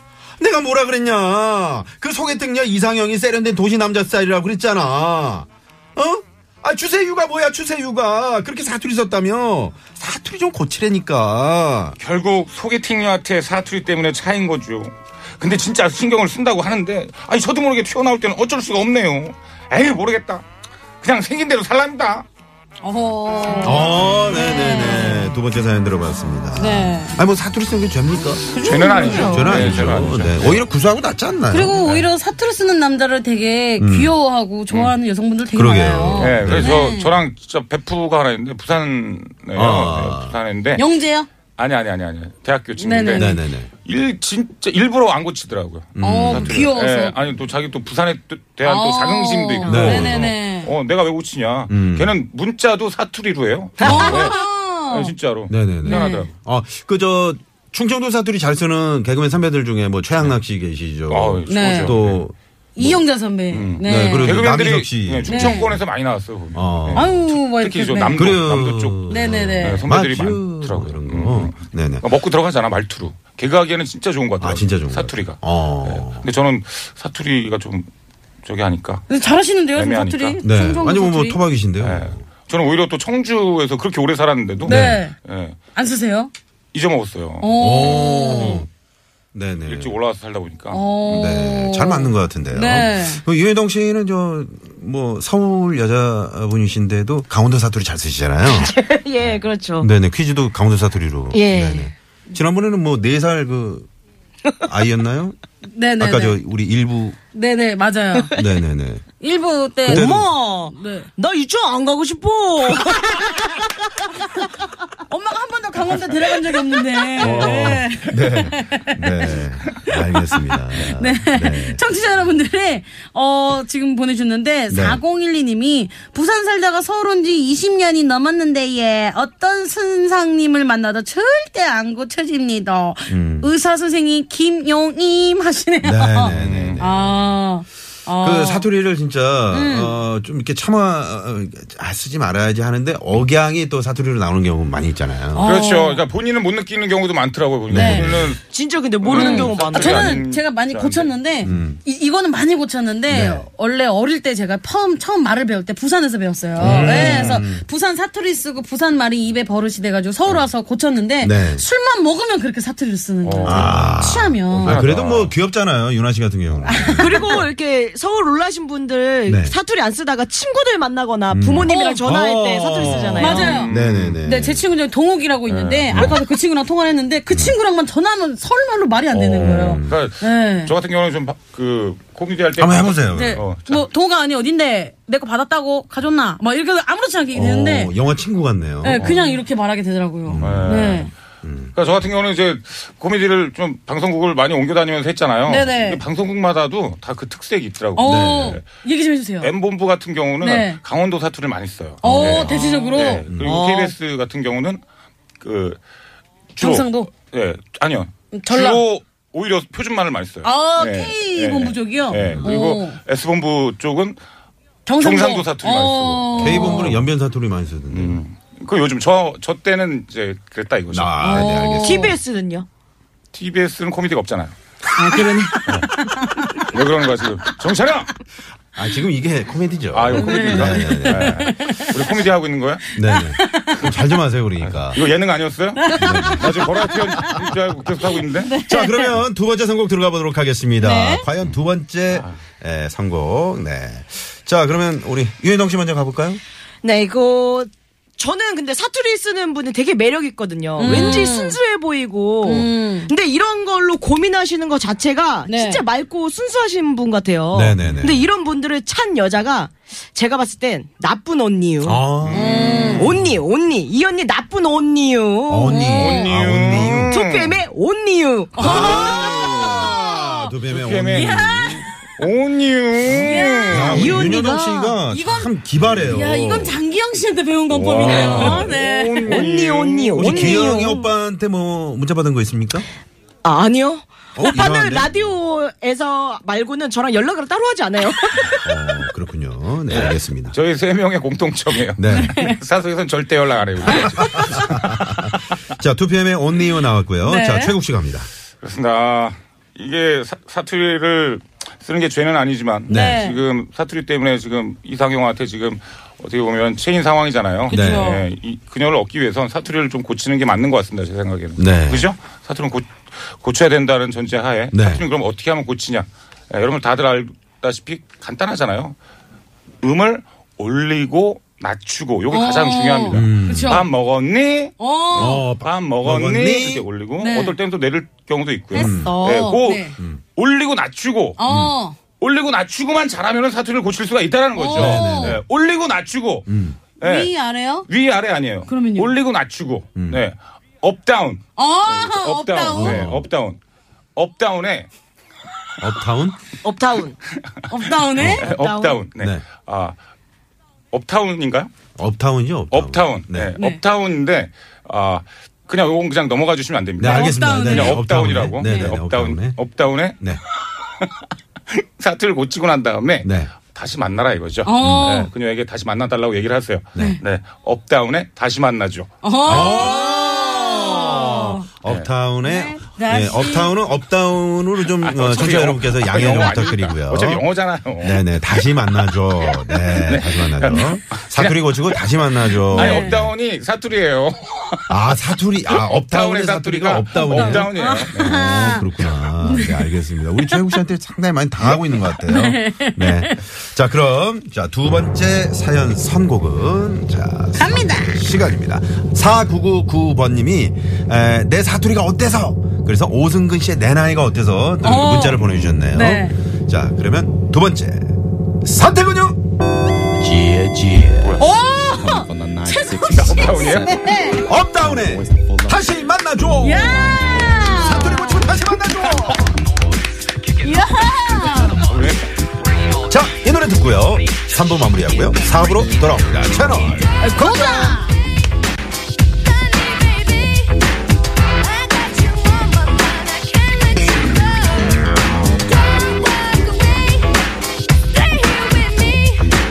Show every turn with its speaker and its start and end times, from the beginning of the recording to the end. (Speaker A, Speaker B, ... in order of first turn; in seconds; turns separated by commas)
Speaker A: 0.4-11.9, Speaker B: 12.0-20.4, Speaker B: 21.0-22.2, Speaker C: 22.8-25.4, Speaker A: 23.6-28.5, Speaker C: 26.6-27.2, Speaker B: 28.5-30.6, Speaker C: 28.6-29.7, Speaker D: 28.6-29.8, Speaker A: 29.1-31.8, Speaker C: 31.5-37.2, Speaker B: 31.8-32.1, Speaker A: 33.8-34.1, Speaker A: 35.5-36.8, Speaker B: 36.2-40.8, Speaker A: 39.5-40.4, Speaker C: 40.8-41.3, Speaker B: 41.6-54.4, Speaker C: 42.8-43.4, Speaker A: 43.1-43.7, Speaker A: 46.0-46.7, Speaker C: 46.0-47.1, Speaker C: 48.6-50.7, Speaker A: 49.6-50.3, Speaker A: 51.7-52.1, Speaker D: 53.8-54.1, Speaker C: 53.8-55.1, Speaker A: 53.8-54.3, Speaker B: 54.9-56.3, Speaker A: 55.5-63.0, Speaker C: 55.8-56.3, Speaker B: 61.1-62.2, Speaker C: 61.5-62.0, Speaker C: 62.8-64.4, Speaker B: 63.5-77.9, Speaker A: 63.8-65.8, Speaker C: 65.3-65.7, Speaker A: 66.5-67.2, Speaker C: 66.9-68.2, Speaker A: 68.2-72.0, Speaker C: 69.1-69.8, Speaker A: 74.4-76.3, Speaker B: 78.4-79.1, Speaker C: 79.1-81.4, Speaker B: 79.7-80.4, Speaker A: 80.4-82.2, Speaker B: 81.8-85.6, Speaker C: 84.6-85.1, Speaker A: 84.7-85.0, Speaker C: 85.7-86.3, Speaker B: 86.7-88.2, Speaker C: 87.4-88.6, Speaker A: 87.6-88.7, Speaker A: 89.3-90.0, Speaker B: 89.7-90.8, Speaker C: 90.7-93.2, Speaker A: 91.1-98.7, Speaker D: 98.5-99.9, Speaker A: 99.8-103.9, Speaker D: 101.3-101.9, Speaker A: 104.7-105.3, Speaker C: 105.7-106.4, Speaker A: 106.0-107.2, Speaker C: 107.3-108.3, Speaker D: 108.2-108.5, Speaker A: 108.3-109.0, Speaker C: 109.2-111.1, Speaker A: 109.9-110.3, Speaker D: 109.9-113.8, Speaker C: 115.1-119.9, Speaker A: 117.2-121.8, Speaker C: 120.8-138.7, Speaker A: 124.7-125.0, Speaker A: 133.1-133.5, Speaker A: 135.8-137.1, Speaker B: 136.3-136.8, Speaker A: 138.2-145.5, Speaker C: 139.5-139.9, Speaker C: 145.3-146.0, Speaker B: 145.4-148.4, Speaker A: 147.7-148.4, Speaker C: 147.7-148.1, Speaker D: 148.5-150.2, Speaker B: 149.0-151.1, Speaker C: 149.1-164.8, Speaker A: 151.4-151.8, Speaker A: 153.1-153.5, Speaker A: 156.6-157.6, Speaker B: 156.6-157.4, Speaker A: 161.2-161.6, Speaker B: 163.2-165.3, Speaker A: 163.4-167.5, Speaker C: 166.6-167.4, Speaker D: 167.0-173.6, Speaker A: 169.3-169.6, Speaker A: 171.3-174.6, Speaker C: 171.7-172.0, Speaker C: 173.2-173.7, Speaker B: 173.2-174.2, Speaker C: 174.2-180.7, Speaker B: 175.5-176.2, Speaker A: 175.9-176.2, Speaker B: 179.1-183.8, Speaker A: 179.2-180.0, Speaker A: 182.6-183.4, Speaker C: 183.1-187.9, Speaker A: 187.3-189.1, Speaker C: 188.8-191.1, Speaker B: 188.9-189.4, Speaker A: 190.2-191.7, Speaker B: 190.4-191.1, Speaker B: 191.7-198.7, Speaker C: 195.5-196.0, Speaker C: 197.9-199.5, Speaker A: 198.0-198.6, Speaker B: 199.4-204.8, Speaker C: 200.4-200.8, Speaker A: 202.0-202.7, Speaker C: 202.0-203.2, Speaker A: 203.2-203.6, Speaker D: 203.4-203.9, Speaker B: 205.4-205.8, Speaker B: 206.5-214.2, Speaker C: 206.6-207.1, Speaker C: 208.3-208.8, Speaker C: 210.4-213.0, Speaker A: 212.1-212.5, Speaker C: 214.8-216.9, Speaker B: 215.0-217.1, Speaker A: 216.4-218.2, Speaker B: 217.9-221.2, Speaker A: 220.9-222.2, Speaker C: 221.2-222.2, Speaker D: 221.4-222.7, Speaker B: 223.3-224.5, Speaker D: 224.9-225.7, Speaker C: 225.9-226.6, Speaker B: 226.7-228.1, Speaker A: 228.7-231.5, Speaker B: 229.9-232.9, Speaker C: 230.1-232.0, Speaker A: 232.9-235.0, Speaker C: 233.1-233.9, Speaker B: 234.6-238.5, Speaker C: 235.8-237.3, Speaker A: 235.9-236.7, Speaker C: 238.4-239.1, Speaker A: 238.6-246.4, Speaker C: 240.8-241.2, Speaker B: 242.1-242.3, Speaker D: 246.8-262.1, Speaker C: 250.8-251.6, Speaker A: 250.8-251.3, Speaker C: 252.4-253.1, Speaker C: 255.5-255.8, Speaker A: 257.5-258.3, Speaker A: 261.8-263.3, Speaker B: 262.2-262.9, Speaker C: 262.3-263.1, Speaker D: 262.9-265.8, Speaker A: 265.5-267.1, Speaker C: 265.6-266.3, Speaker B: 265.9-267.6, Speaker D: 267.1-268.9, Speaker C: 268.6-270.5, Speaker A: 268.6-271.8, Speaker B: 268.6-269.9, Speaker B: 270.7-274.2, Speaker C: 271.1-271.9, Speaker C: 273.1-274.4, Speaker A: 273.1-276.8, Speaker D: 273.7-275.0, Speaker C: 275.1-275.5, Speaker B: 275.9-276.2, Speaker C: 276.1-279.5, Speaker B: 277.7-280.8, Speaker A: 277.9-278.7, Speaker D: 279.2-281.1, Speaker A: 280.1-282.9, Speaker D: 283.4-288.7, Speaker A: 284.4-285.1, Speaker A: 288.6-290.6, Speaker B: 289.9-295.4, Speaker A: 292.0-292.4, Speaker C: 292.1-292.6, Speaker A: 294.0-298.3, Speaker C: 297.2-297.8, Speaker B: 298.6-318.9, Speaker A: 302.9-303.2, Speaker C: 302.9-303.4, Speaker C: 307.7-308.2, Speaker A: 307.7-308.1, Speaker A: 311.6-312.1, Speaker A: 314.7-315.0, Speaker B: 319.8-331.4, Speaker C: 322.3-323.9, Speaker A: 323.1-323.9, Speaker C: 324.8-325.4, Speaker A: 325.1-326.9, Speaker C: 327.2-327.5, Speaker C: 328.7-329.9, Speaker A: 328.7-329.1, Speaker C: 331.4-331.9, Speaker A: 331.4-331.7, Speaker B: 332.2-336.5, Speaker C: 334.6-335.4, Speaker A: 334.7-335.4, Speaker A: 336.5-336.8, Speaker B: 337.0-337.3, Speaker C: 337.0-337.9, Speaker B: 337.9-343.6, Speaker C: 338.7-339.1, Speaker A: 339.9-340.2, Speaker C: 341.6-343.1, Speaker A: 342.7-343.3, Speaker B: 344.1-344.9, Speaker A: 345.8-346.4, Speaker D: 346.6-347.1, Speaker C: 347.7-348.4, Speaker A: 348.1-348.4, Speaker B: 348.2-349.9, Speaker D: 348.4-349.0, Speaker A: 349.2-349.4, Speaker B: 350.9-351.7, Speaker A: 351.9-353.5, Speaker B: 352.7-361.2, Speaker A: 357.0-359.6, Speaker C: 357.0-358.0, Speaker C: 358.6-358.9, Speaker B: 361.7-369.7, Speaker A: 363.2-363.5, Speaker C: 364.6-365.3, Speaker A: 364.8-365.2, Speaker C: 366.9-367.2, Speaker C: 369.2-371.6, Speaker A: 369.4-377.4, Speaker C: 372.4-373.7, Speaker B: 375.0-378.2, Speaker A: 378.0-383.3, Speaker B: 379.9-382.2, Speaker B: 382.7-385.0, Speaker C: 382.7-383.2, Speaker A: 384.9-409.4, Speaker B: 385.7-388.3, Speaker C: 387.2-388.9, Speaker C: 389.4-389.9, Speaker C: 390.5-390.8, Speaker C: 391.6-393.4, Speaker C: 397.6-398.1, Speaker C: 404.8-406.3, Speaker B: 411.1-411.4, Speaker C: 411.4-414.5, Speaker D: 411.4-412.3, Speaker B: 412.8-414.0, Speaker A: 414.4-419.6, Speaker C: 416.6-418.3, Speaker D: 417.7-418.5, Speaker C: 420.6-421.9, Speaker B: 421.8-422.3, Speaker A: 423.1-428.0, Speaker C: 427.2-428.1, Speaker D: 427.2-427.9, Speaker D: 429.4-430.8, Speaker D: 431.6-437.5, Speaker D: 438.0-439.5